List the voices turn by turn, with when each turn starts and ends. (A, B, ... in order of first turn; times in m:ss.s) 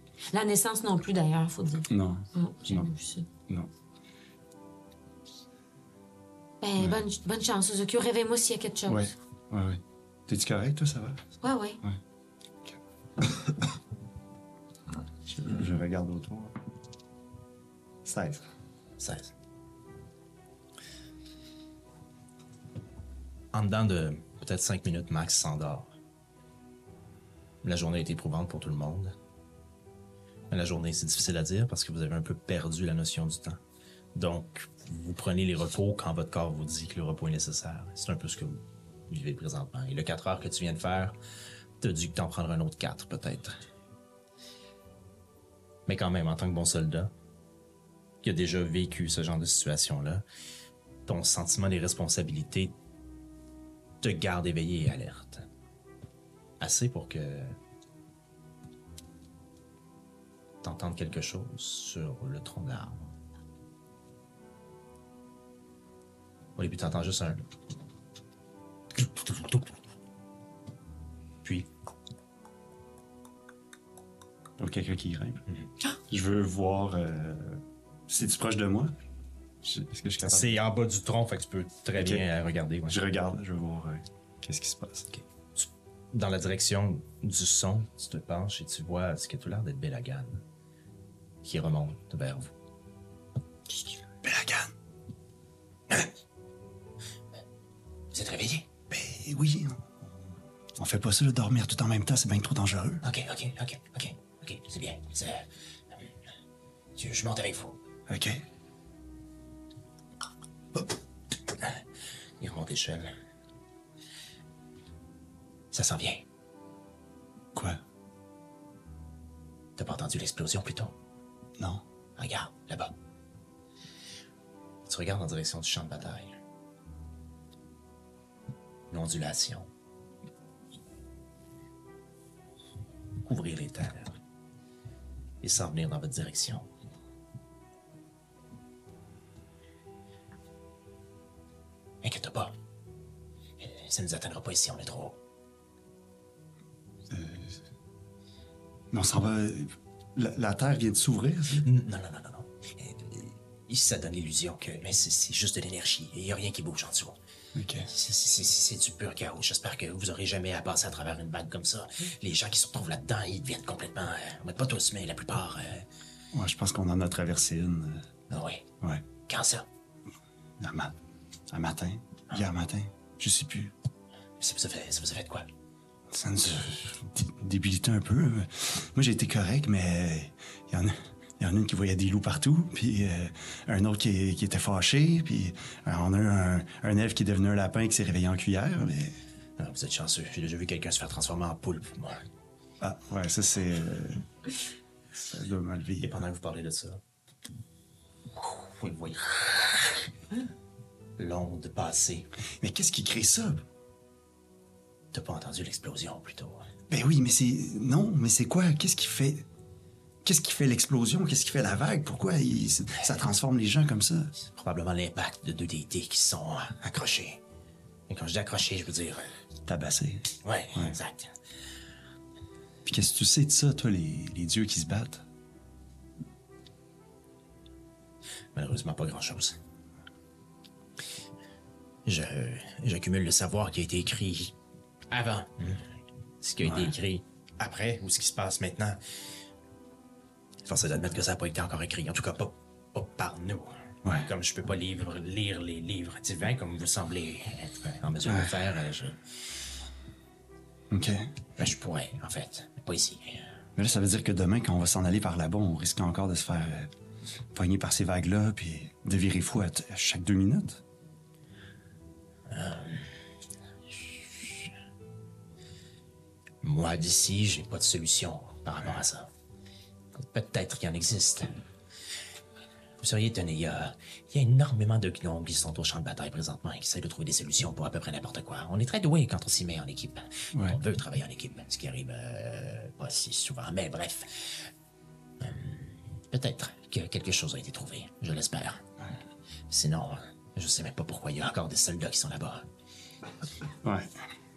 0:00.3-0:03.2 A
0:01.9-0:02.9 B
0:06.6-0:09.1 A
0:08.9-0:11.2 B
0:11.4-0:11.8 A
0:12.6-0:13.5 B
0:15.2-0:16.5 B
0:18.0-0:18.5 B
0:19.0-0:19.3 C
0:23.5-0:25.9 C
0:27.6-0:29.1 C
0:30.5-0:33.6 C
0:34.1-0:41.2 C
0:41.8-0:43.6 C
0:45.9-0:47.1 C
0:48.2-0:50.2 C
0:51.0-0:52.7 C
0:54.0-0:55.4 C
0:56.6-0:57.5 C
1:00.6-1:03.1 C
1:06.6-1:07.4 C
1:08.9-1:09.8 C
1:14.6-1:15.4 B
1:16.1-1:18.9 B
1:19.6-1:20.6 B
1:20.2-1:23.0 C
1:22.0-1:22.2 B
1:22.9-1:25.1 B
1:25.1-1:30.4 C
1:31.4-1:32.5 C
1:34.1-1:34.7 B
1:38.1-1:38.7 C
1:38.9-1:40.2 B
1:40.8-1:43.0 B
1:43.0-1:46.1 C
1:47.0-1:47.8 C
1:48.1-1:48.4 B
1:52.4-1:53.1 C
1:55.7-1:56.2 C
1:57.5-1:57.8 B
1:59.8-2:00.9 C
2:01.6-2:01.8 B
2:02.2-2:02.9 C
2:04.9-2:06.4 C
2:08.9-2:09.7 C
2:13.2-2:14.2 C
2:15.4-2:16.7 C
2:22.0-2:22.5 C
2:23.6-2:25.2 C
2:27.1-2:27.6 B
2:28.9-2:31.7 B
2:31.6-2:37.2 C
2:37.5-2:37.9 B
2:37.9-2:45.8 C
2:46.3-2:48.0 B
2:48.3-2:48.6 C
2:49.3-2:49.6 C
2:50.6-2:50.9 B
2:51.5-2:53.7 B
2:54.4-2:55.5 C
2:56.1-3:09.2 B
3:09.6-3:12.2 C
3:12.8-3:14.2 B
3:15.2-3:16.2 B
3:16.0-3:17.0 C
3:18.4-3:19.9 C
3:21.2-3:22.3 C
3:22.6-3:23.6 B
3:25.1-3:26.7 C
3:26.9-3:29.4 B
3:30.2-3:34.3 B
3:34.5-3:37.4 C
3:38.1-3:39.3 C
3:39.7-3:41.0 B
3:40.4-3:41.3 C
3:42.8-3:45.2 B
3:48.5-3:49.6 C
3:52.0-3:54.5 C
3:55.1-3:55.8 C
3:56.4-3:59.0 C
3:56.6-3:56.9 B
4:00.6-4:09.2 C
4:04.0-4:04.3 B
4:08.2-4:08.5 B
4:10.9-4:11.3 B
4:11.6-4:13.5 C
4:13.8-4:16.9 B
4:17.5-4:20.8 B
4:22.5-4:23.1 C
4:23.9-4:24.7 C
4:26.6-4:29.3 C
4:30.1-4:31.6 C
4:33.0-4:44.7 C
4:40.5-4:40.8 B
4:45.4-4:48.8 C
4:49.7-4:52.6 C
4:53.8-4:54.1 B